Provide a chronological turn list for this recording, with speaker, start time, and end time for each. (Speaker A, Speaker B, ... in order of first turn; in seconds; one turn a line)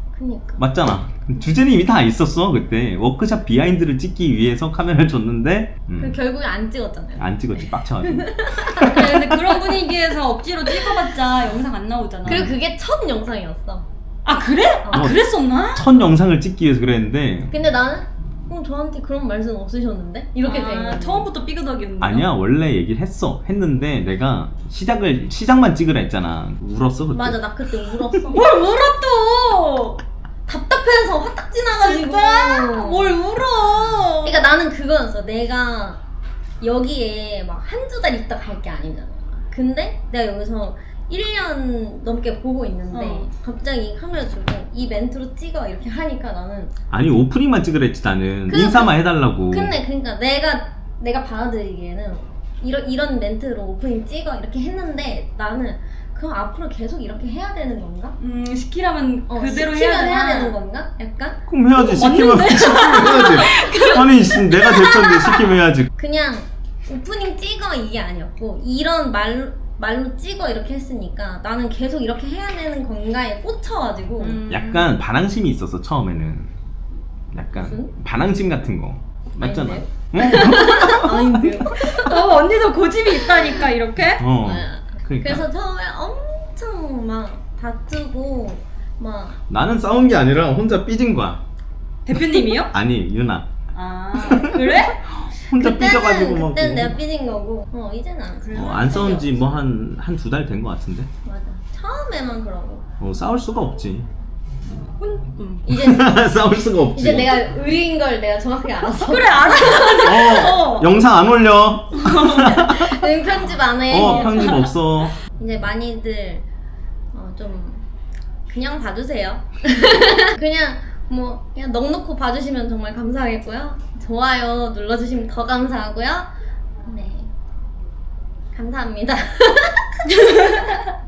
Speaker A: 0.1-0.6
Speaker B: 0.6-6.2
Speaker A: 6.0-9.5
Speaker B: 7.2-9.1
Speaker C: 8.8-12.5
Speaker B: 12.2-12.6
Speaker A: 12.2-13.9
Speaker C: 14.2-15.9
Speaker A: 14.8-15.1
Speaker B: 14.9-17.6
Speaker A: 17.5-21.3
Speaker C: 20.4-22.3
Speaker B: 22.0-27.4
Speaker A: 27.1-28.5
Speaker C: 28.3-30.0
Speaker A: 30.4-33.2
Speaker C: 31.8-34.5
Speaker A: 34.2-36.0
Speaker A: 36.6-46.7
Speaker C: 42.9-43.3
Speaker B: 46.9-49.8
Speaker A: 48.5-58.2
Speaker C: 58.2-60.6
Speaker A: 59.3-61.5
Speaker B: 61.5-65.9
Speaker C: 61.7-65.4
Speaker A: 63.2-63.9
Speaker A: 65.9-74.4
Speaker C: 74.2-75.0
Speaker B: 74.5-76.5
Speaker B: 77.3-81.5
Speaker A: 77.5-77.9
Speaker A: 79.4-82.1
Speaker C: 81.7-84.2
Speaker A: 83.1-83.6
Speaker B: 84.2-85.4
Speaker A: 84.4-89.4
Speaker B: 89.5-91.4
Speaker C: 92.0-92.7
Speaker B: 92.1-93.5
Speaker C: 93.7-95.0
Speaker B: 94.2-97.0
Speaker A: 95.5-99.6
Speaker C: 98.4-99.1
Speaker B: 98.5-101.1
Speaker A: 101.2-102.8
Speaker B: 103.0-104.1
Speaker C: 104.8-105.7
Speaker A: 105.6-106.3
Speaker B: 105.7-107.5
Speaker A: 106.9-110.1
Speaker C: 108.8-111.0
Speaker B: 110.0-113.1
Speaker C: 111.9-112.6
Speaker A: 112.0-114.6
Speaker B: 113.9-115.2
Speaker C: 113.9-114.7
Speaker A: 115.3-116.4
Speaker A: 117.1-117.8
Speaker A: 118.5-126.3
Speaker A: 126.8-127.3
Speaker A: 128.5-130.8
Speaker C: 130.1-130.9